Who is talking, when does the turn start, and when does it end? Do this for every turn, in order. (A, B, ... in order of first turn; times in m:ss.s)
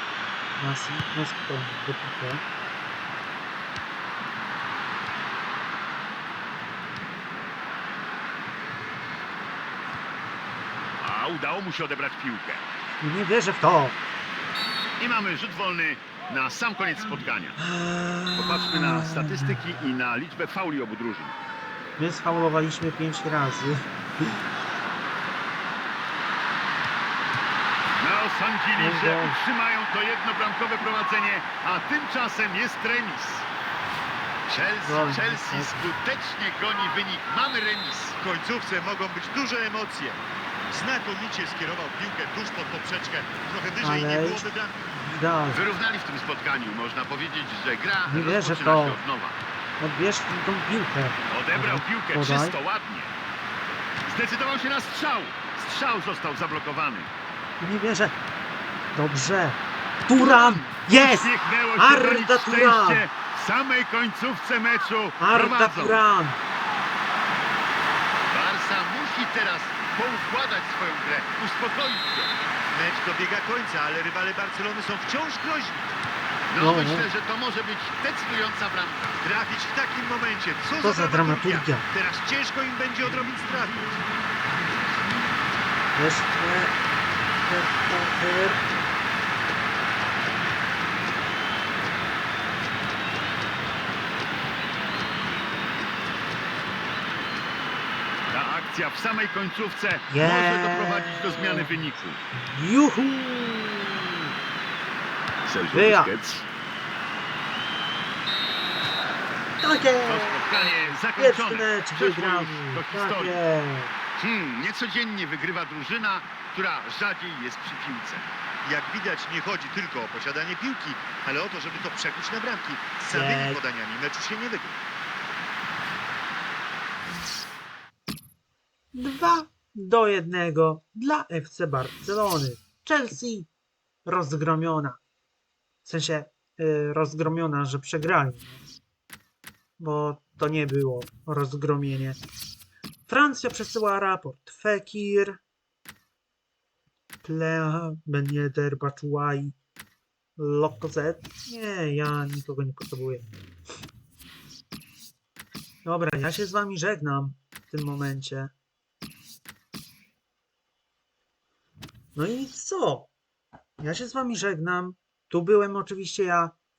0:00.6-0:02.4 A
0:11.0-0:12.6 B
0:13.0-0:14.0 A
0:15.0-0:17.6 B
0:17.6-0:19.6 A
0:18.4-0:21.4 B
0:22.0-0:23.9 A
0:28.0-0:33.5 B
0:28.8-0:29.4 A
0:34.5-0:38.2 B
0:34.8-0:35.9 A
0:38.2-0:44.8 C
0:43.8-0:45.6 A
0:45.5-0:49.4 B
0:48.1-0:49.0 A
0:49.8-0:52.6 A
0:51.3-0:53.1 B
0:54.0-0:57.1 B
0:57.6-0:58.2 A
0:58.9-1:03.0 A
1:00.1-1:06.0 B
1:05.2-1:06.4 A
1:08.3-1:12.3 B
1:12.7-1:15.9 C
1:16.5-1:19.2 B
1:16.6-1:17.1 A
1:19.2-1:24.1 C
1:20.8-1:21.8 A
1:25.9-1:26.8 A
1:27.4-1:28.6 A
1:38.3-1:42.2 B
1:40.1-1:41.7 A
1:42.4-1:44.3 A
1:45.4-1:46.5 B
1:45.7-1:46.1 A
1:49.6-1:54.0 A
1:50.0-1:53.4 B
1:54.2-1:58.3 B
1:58.6-2:04.8 C
2:03.1-2:03.6 A
2:08.9-2:13.5 A
2:14.0-2:15.0 A
2:15.8-2:18.6 A
2:19.8-2:22.2 A
2:23.1-2:25.4 A
2:27.2-2:29.5 A
2:30.4-2:33.2 A
2:35.8-2:38.5 A
2:42.2-2:43.1 A
2:43.8-2:46.6 A